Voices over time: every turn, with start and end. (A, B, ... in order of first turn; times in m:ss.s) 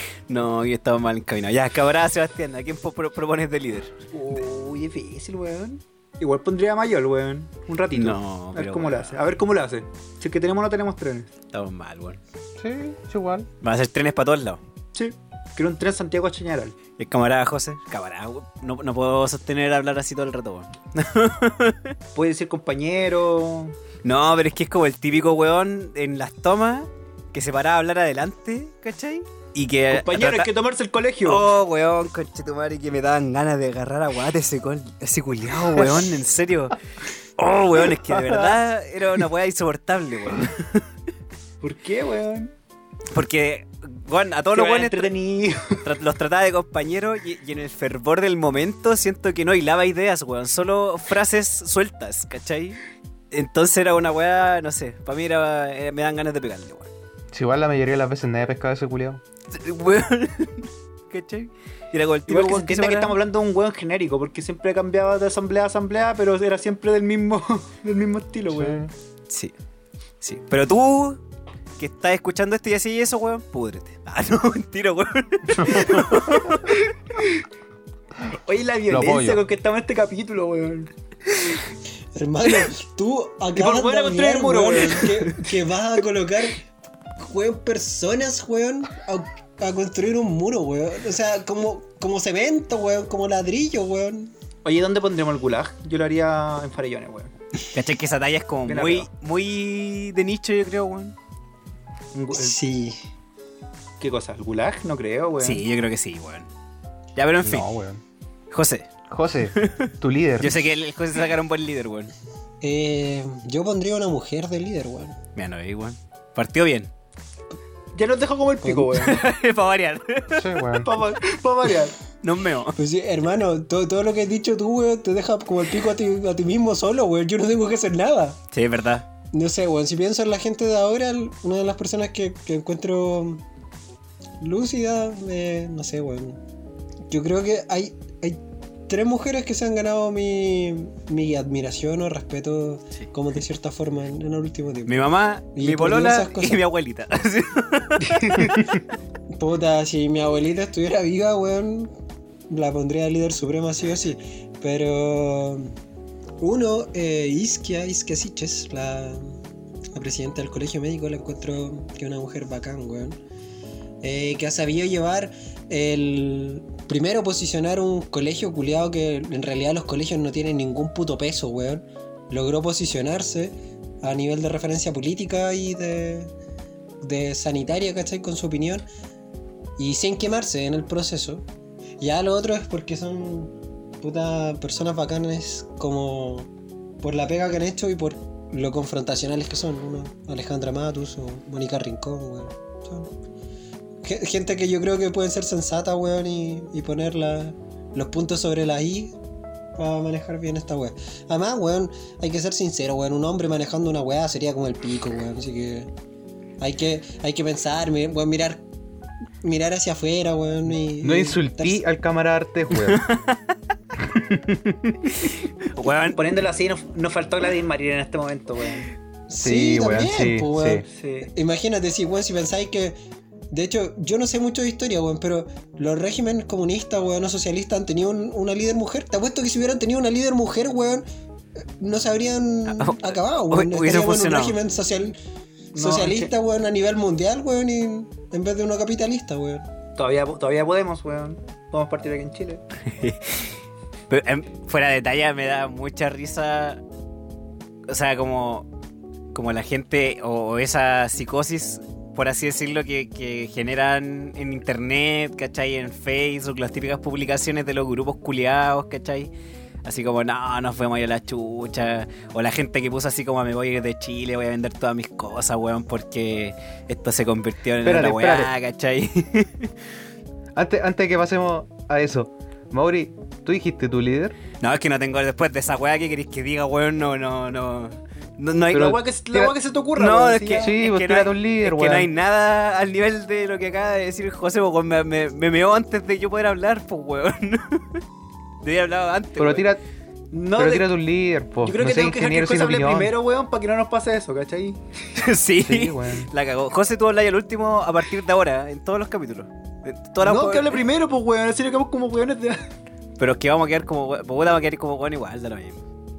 0:00.3-0:03.9 A
0:04.1-0:11.3 B
0:07.9-0:09.2 A
0:11.5-0:12.2 A
0:12.6-0:13.5 C
0:13.6-0:14.6 A
0:14.9-0:16.7 B
0:17.0-0:21.9 A
0:22.1-0:23.7 B
0:24.0-0:30.5 A
0:29.9-0:31.4 B
0:31.2-0:36.7 A
0:37.4-0:40.8 A
0:41.6-0:42.5 B
0:43.1-0:45.1 A
0:44.5-0:45.8 B
0:45.8-0:52.8 A
0:53.3-0:56.9 A
0:57.3-0:59.2 C
0:59.5-1:03.2 A
1:02.3-1:08.8 B
1:08.5-1:08.9 C
1:10.2-1:11.2 A
1:11.8-1:16.7 A
1:15.6-1:16.3 C
1:18.4-1:20.9 B
1:18.9-1:19.4 C
1:22.1-1:26.6 D
1:23.5-1:25.6 B
1:27.2-1:34.3 D
1:34.6-1:37.3 B
1:37.7-1:41.1 A
1:38.7-1:39.1 B
1:42.1-1:42.6 B
1:42.3-1:43.0 D
1:44.0-1:45.6 B
1:45.4-1:46.5 A
1:47.2-1:47.7 A
1:47.4-1:48.0 C
1:48.5-1:48.9 A
1:49.1-1:50.6 C
1:49.5-1:52.1 A
1:52.6-1:55.1 D
1:55.3-1:56.9 A
1:57.9-1:59.2 B
1:58.6-1:58.9 D
1:59.0-2:00.5 A
2:00.3-2:00.9 C
2:00.8-2:02.0 B
2:02.2-2:02.8 A
2:02.8-2:08.4 D
2:08.5-2:09.0 A
2:09.3-2:13.4 D
2:14.4-2:16.4 D
2:17.1-2:26.7 D
2:24.8-2:28.6 A
2:28.1-2:28.6 B
2:29.3-2:31.9 D
2:32.5-2:35.7 D
2:36.4-2:39.4 D
2:39.9-2:43.2 D
2:44.0-2:56.3 D
2:57.0-2:58.8 D
2:59.8-3:01.4 D
3:02.0-3:13.1 D
3:14.0-3:19.1 D
3:19.8-3:25.9 D
3:26.6-3:28.6 D
3:29.4-3:31.8 D
3:30.7-3:33.0 C
3:32.7-3:33.6 A
3:34.0-3:35.0 C
3:35.1-3:36.2 A
3:36.1-3:38.9 B
3:39.3-3:43.0 D
3:39.4-3:40.8 C
3:40.9-3:41.3 B
3:43.5-3:51.0 D
3:51.8-3:55.2 D
3:52.7-3:54.6 A
3:55.7-3:56.3 B
3:55.7-3:59.6 D
4:00.0-4:02.6 B
4:02.8-4:06.8 A
4:07.9-4:08.7 A
4:09.3-4:19.3 A
4:19.8-4:29.7 A
4:27.8-4:28.5 C
4:30.5-4:34.4 C
4:34.6-4:39.0 A
4:38.7-4:39.5 C
4:38.7-4:40.7 B
4:40.0-4:48.0 A
4:40.6-4:42.1 C
4:48.6-4:49.6 A
4:49.4-4:49.8 C
4:50.3-4:50.9 B
4:50.6-4:53.1 C
4:51.6-4:54.8 B
4:55.1-5:00.8 A
4:55.6-4:56.3 C
5:00.2-5:02.6 B
5:03.2-5:05.8 A